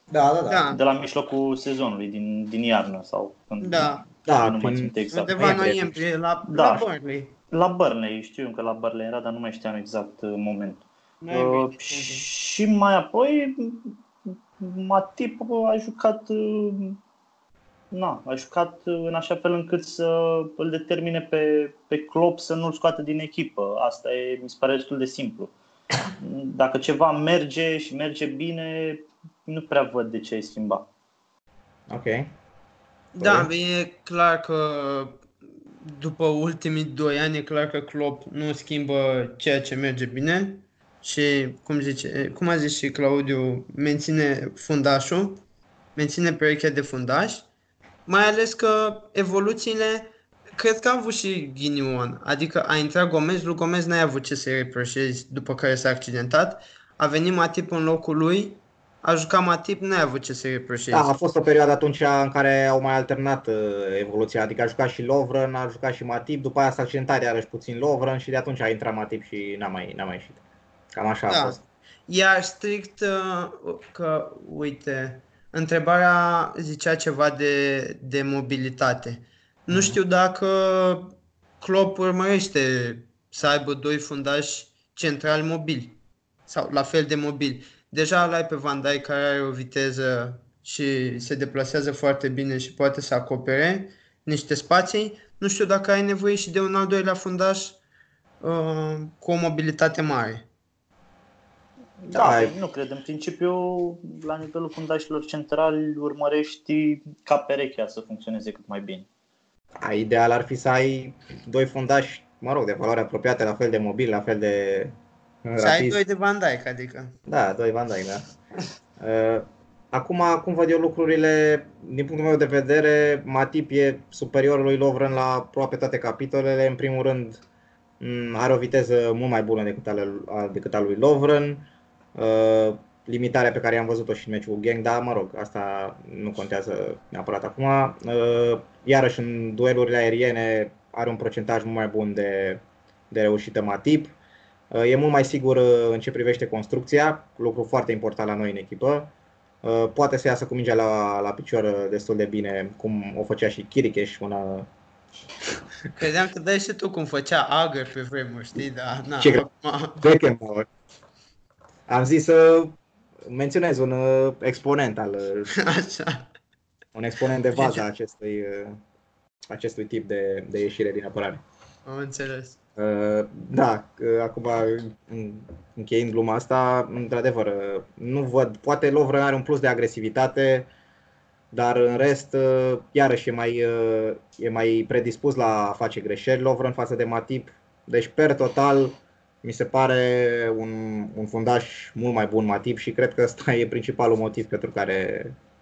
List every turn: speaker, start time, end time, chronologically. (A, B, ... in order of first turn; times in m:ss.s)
0:00.1-0:00.7 A
0:00.5-0:00.8 B
0:00.7-0:05.6 C
0:03.6-0:04.0 B
0:04.2-0:06.0 A
0:05.1-0:07.3 B
0:06.5-0:06.8 C
0:07.5-0:14.0 C
0:11.2-0:12.2 B
0:14.6-0:17.0 C
0:17.9-0:25.5 C
0:26.2-0:30.9 C
0:31.9-0:32.3 A
0:33.1-0:35.2 B
0:33.2-0:33.5 A
0:35.8-0:45.4 B
0:46.0-0:47.5 B
0:48.0-1:01.1 B
1:00.9-1:10.4 A
1:10.9-1:11.6 A
1:11.3-1:11.6 B
1:12.1-1:37.8 B
1:19.7-1:20.0 A
1:38.4-1:40.4 B
1:42.0-1:49.1 C
1:42.1-1:42.5 A
1:49.8-1:56.0 A
1:55.6-1:57.2 B
1:57.3-1:58.2 A
1:59.0-2:07.4 A
2:08.0-2:24.1 A
2:24.7-2:29.1 A
2:29.6-2:34.7 A
2:36.0-2:40.0 B
2:39.2-2:39.4 A
2:40.0-2:40.7 A
2:41.9-2:45.5 A
2:45.5-2:46.3 B
2:46.9-2:48.8 A
2:47.5-2:47.8 B
2:49.5-2:51.4 A
2:51.8-2:52.6 B
2:52.8-3:00.7 A
3:01.5-3:15.3 A